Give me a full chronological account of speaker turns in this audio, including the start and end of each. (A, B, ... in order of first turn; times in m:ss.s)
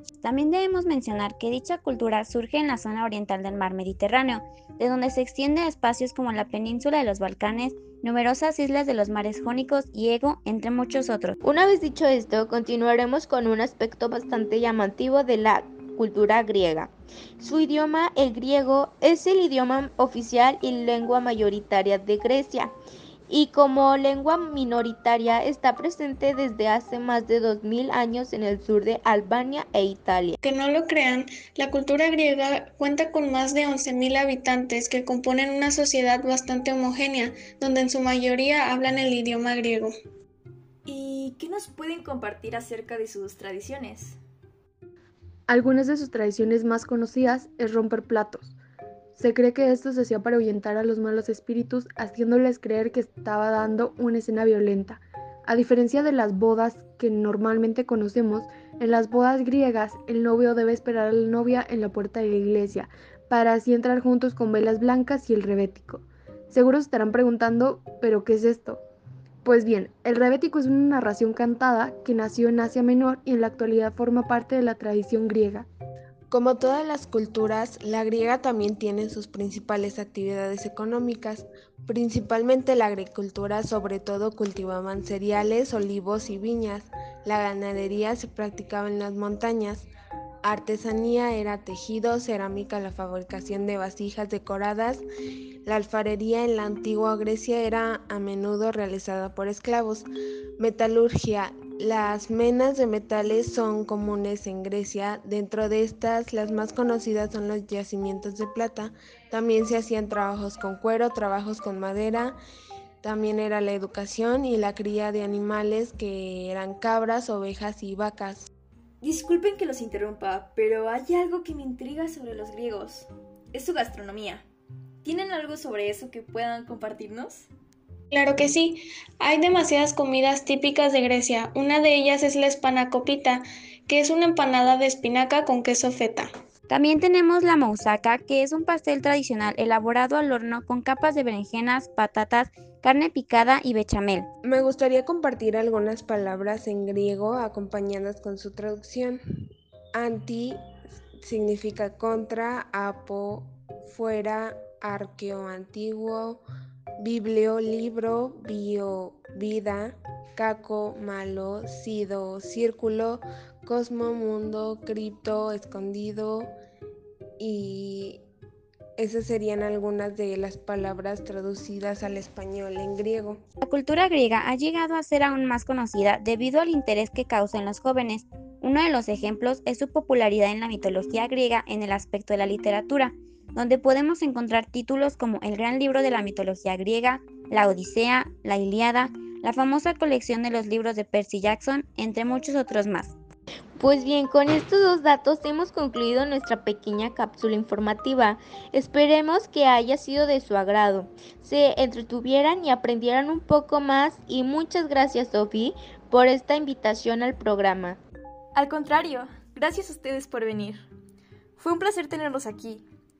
0:00.2-0:11.4 A
0:11.4-0:22.7 B
0:23.3-0:30.4 B
0:30.4-0:39.9 C
0:40.9-0:44.2 D
0:45.5-0:48.6 E
0:49.2-1:08.8 E
1:09.4-1:15.7 E
1:16.3-1:29.9 F
1:30.4-1:35.1 F
1:35.6-1:52.4 F
1:53.0-1:58.5 F
1:59.0-2:04.5 D
2:05.0-2:07.5 D
2:08.1-2:16.3 C
2:16.7-2:24.3 A
2:24.4-2:29.2 F
2:30.0-2:30.6 F
2:31.2-2:36.4 F
2:37.0-2:46.5 F
2:47.4-2:48.2 F
2:49.0-2:53.4 F
2:53.6-3:13.2 A
3:13.8-3:28.0 B
3:28.6-3:30.9 D
3:31.6-3:32.8 D